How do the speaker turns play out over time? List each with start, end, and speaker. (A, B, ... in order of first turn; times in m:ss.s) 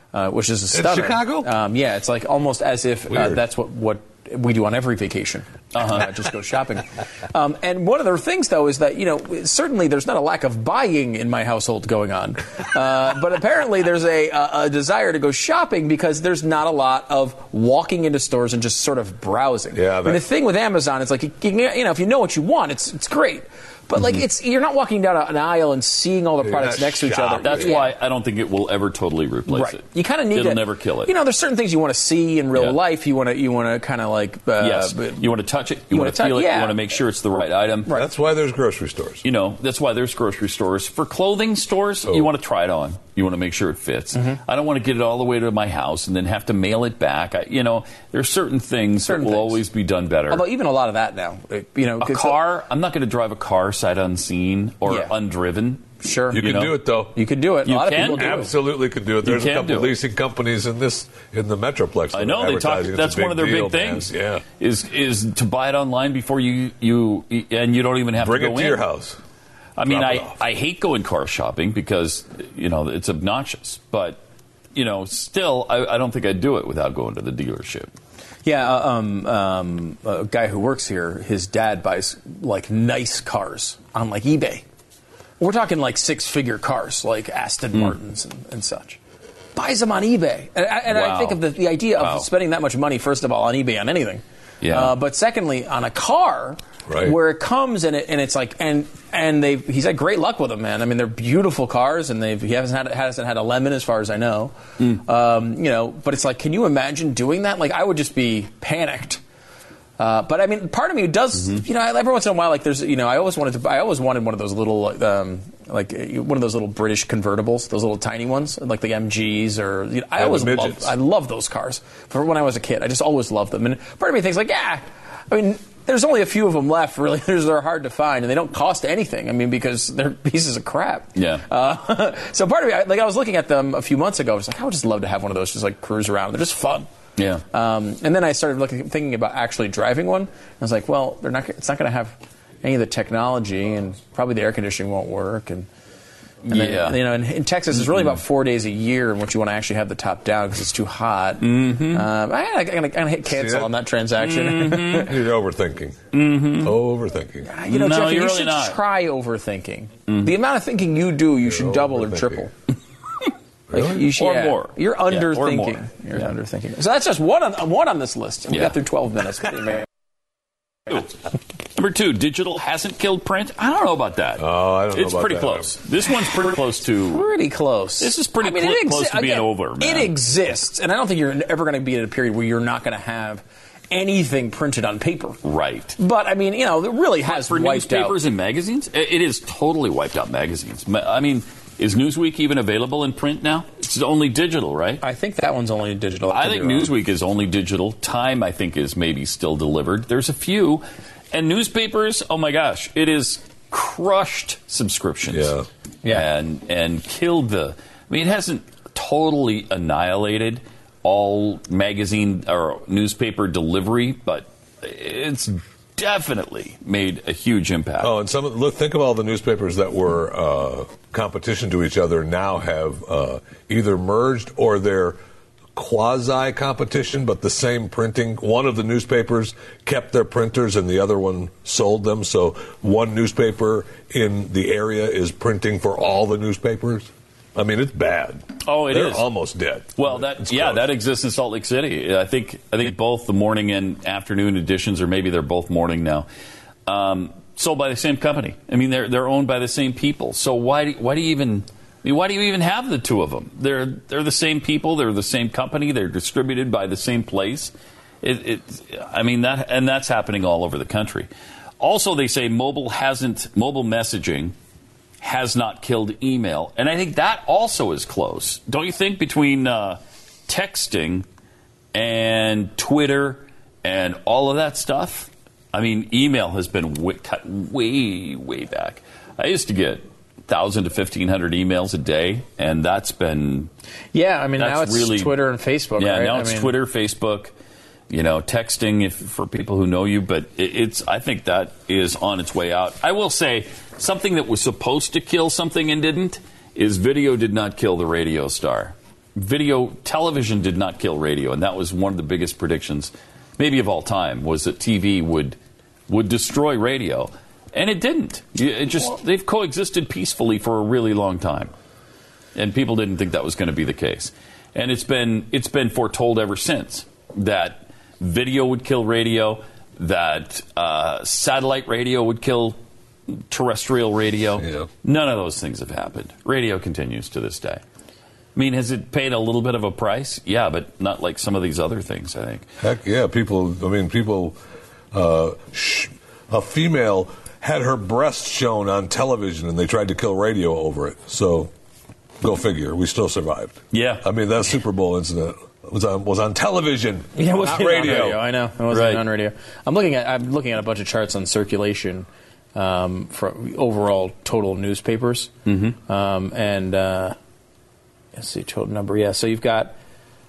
0:00.1-0:27.9 A
0:00.7-0:01.5 B
0:05.7-0:06.1 C
0:19.7-0:20.2 B
0:26.4-0:27.7 B
0:27.4-0:31.1 C
0:29.5-0:35.3 A
0:34.6-0:37.9 C
0:35.9-0:36.8 A
0:37.9-0:39.2 B
0:39.2-0:50.4 C
0:49.0-0:49.6 A
0:50.3-0:52.6 A
0:52.0-0:56.8 C
0:54.8-0:55.1 A
0:56.0-0:56.5 A
0:56.3-0:57.2 B
0:57.0-0:58.5 A
0:57.6-0:58.5 C
0:57.9-1:04.4 B
0:59.2-1:00.0 C
1:02.1-1:08.8 C
1:08.2-1:09.2 B
1:09.8-1:14.2 C
1:09.8-1:10.3 B
1:14.7-1:17.9 C
1:18.4-1:24.6 A
1:25.4-1:29.0 A
1:29.5-1:49.2 A
1:30.9-1:32.2 C
1:34.6-1:34.9 C
1:36.9-1:37.2 B
1:50.0-2:16.9 A
2:00.2-2:00.9 B
2:11.1-2:11.4 C
2:17.2-2:17.4 C
2:17.5-2:25.7 A
2:26.4-2:35.1 A
2:26.5-2:27.0 C
2:31.4-2:32.0 C
2:33.2-2:33.7 B
2:34.2-2:35.1 C
2:35.0-2:36.0 B
2:36.1-2:36.7 C
2:36.6-2:37.5 B
2:37.4-2:42.5 A
2:37.7-2:38.8 C
2:41.4-2:42.4 B
2:43.7-2:44.0 B
2:43.7-2:49.9 A
2:44.0-2:46.2 C
2:48.5-2:48.8 C
2:51.7-2:57.3 C
2:54.4-2:55.7 B
2:57.0-3:05.4 A
2:58.0-3:00.1 C
3:05.4-3:06.0 C
3:06.0-3:08.2 A
3:07.2-3:15.0 C
3:15.0-3:16.9 A
3:16.3-3:38.1 C
3:25.3-3:25.7 B
3:38.0-3:45.2 B
3:45.8-4:00.9 B
3:58.6-3:59.2 C
3:59.9-4:06.3 C
4:06.9-4:24.5 C
4:25.2-4:31.2 C
4:31.9-4:43.7 C
4:44.1-4:46.7 A
4:44.6-4:45.3 C
4:46.0-4:47.5 C
4:48.1-5:05.6 C
5:06.1-5:11.7 C
5:12.5-5:22.8 C
5:23.3-5:27.8 C
5:24.6-5:24.9 B
5:28.5-5:32.6 C
5:32.8-5:34.6 B
5:35.1-5:41.7 B
5:42.4-5:48.4 B
5:43.9-5:44.2 C
5:47.3-5:57.3 A
5:48.9-5:49.2 C
5:55.7-5:55.9 C
5:58.3-5:59.9 A